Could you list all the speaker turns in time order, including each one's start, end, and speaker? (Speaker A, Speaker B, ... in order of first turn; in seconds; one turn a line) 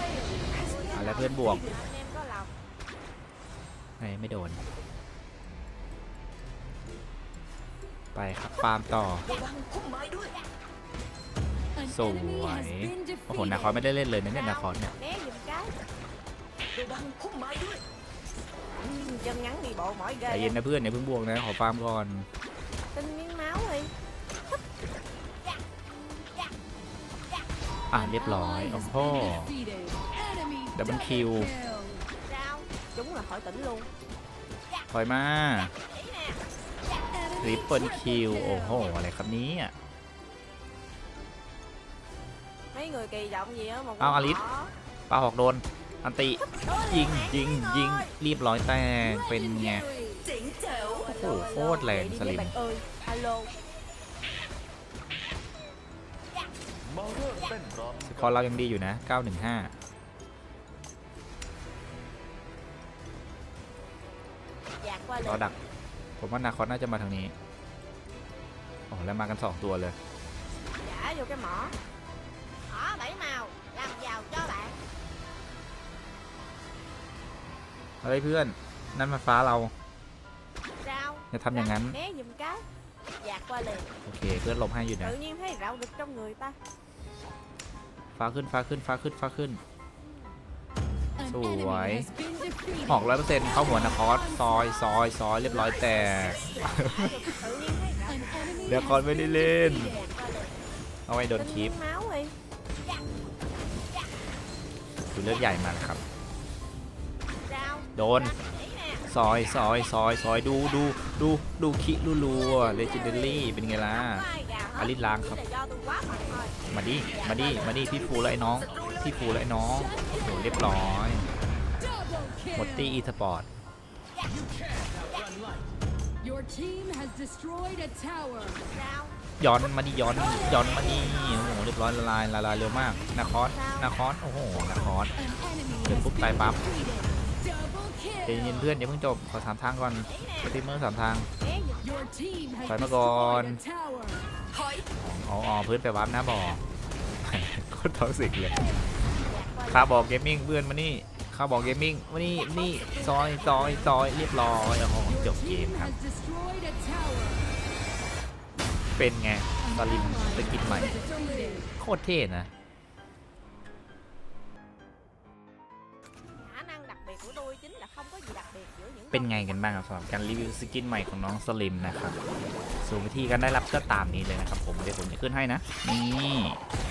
Speaker A: 0.5-2.5
Speaker B: 0.9-1.6
Speaker B: 4.0-4.6
Speaker B: 8.2-9.3
Speaker C: 9.3-10.3
Speaker B: 11.8-14.9
Speaker D: 13.1-13.6
Speaker A: 14.3-15.7
Speaker C: 16.7-17.8
Speaker A: 18.8-20.6
Speaker B: 20.3-22.3
Speaker A: 22.9-23.9
Speaker B: 27.9-29.5
Speaker D: 29.8-30.7
Speaker B: 30.8-31.6
Speaker D: 31.6-31.9
Speaker A: 32.3-33.9
Speaker B: 34.9-35.7
Speaker B: 37.4-39.8
Speaker A: 42.7-44.7
Speaker B: 44.0-44.4
Speaker B: 45.1-49.9
Speaker C: 50.2-51.1
Speaker A: 50.7-53.5
Speaker B: 51.1-52.5
Speaker B: 58.0-59.7
Speaker A: 64.8-65.5
Speaker B: 65.2-65.6
Speaker B: 66.2-67.3
Speaker B: 68.9-70.0
Speaker A: 70.8-71.7
Speaker A: 72.7-74.8
Speaker B: 78.0-79.7
Speaker A: 80.8-82.7
Speaker B: 81.3-82.0
Speaker A: 83.2-83.9
Speaker B: 84.1-85.2
Speaker A: 85.0-86.6
Speaker B: 88.2-89.6
Speaker B: 91.2-92.1
Speaker D: 92.1-92.8
Speaker B: 92.9-97.4
Speaker C: 96.0-96.4
Speaker A: 96.3-99.1
Speaker B: 98.7-99.9
Speaker A: 99.9-100.6
Speaker B: 101.1-101.8
Speaker A: 101.4-102.3
Speaker B: 105.1-106.0
Speaker A: 107.5-109.1
Speaker B: 108.0-108.4
Speaker B: 109.1-115.4
Speaker A: 112.3-116.6
Speaker B: 116.7-121.3
Speaker C: 118.4-119.2
Speaker B: 122.5-123.5
Speaker D: 126.3-128.5
Speaker A: 128.7-129.2
Speaker B: 129.4-135.2
Speaker A: 133.5-133.9
Speaker B: 135.8-136.6
Speaker B: 138.3-141.3
Speaker A: 140.1-140.4
Speaker A: 141.4-142.1
Speaker B: 142.7-143.6
Speaker C: 144.5-144.9
Speaker B: 145.0-146.6
Speaker B: 147.2-148.6
Speaker A: 149.3-149.9
Speaker B: 149.7-155.9
Speaker C: 152.7-153.8
Speaker B: 159.0-161.0
Speaker D: 161.0-161.3
Speaker B: 161.8-162.5
Speaker A: 166.4-169.6
Speaker B: 169.1-172.2
Speaker B: 172.8-176.6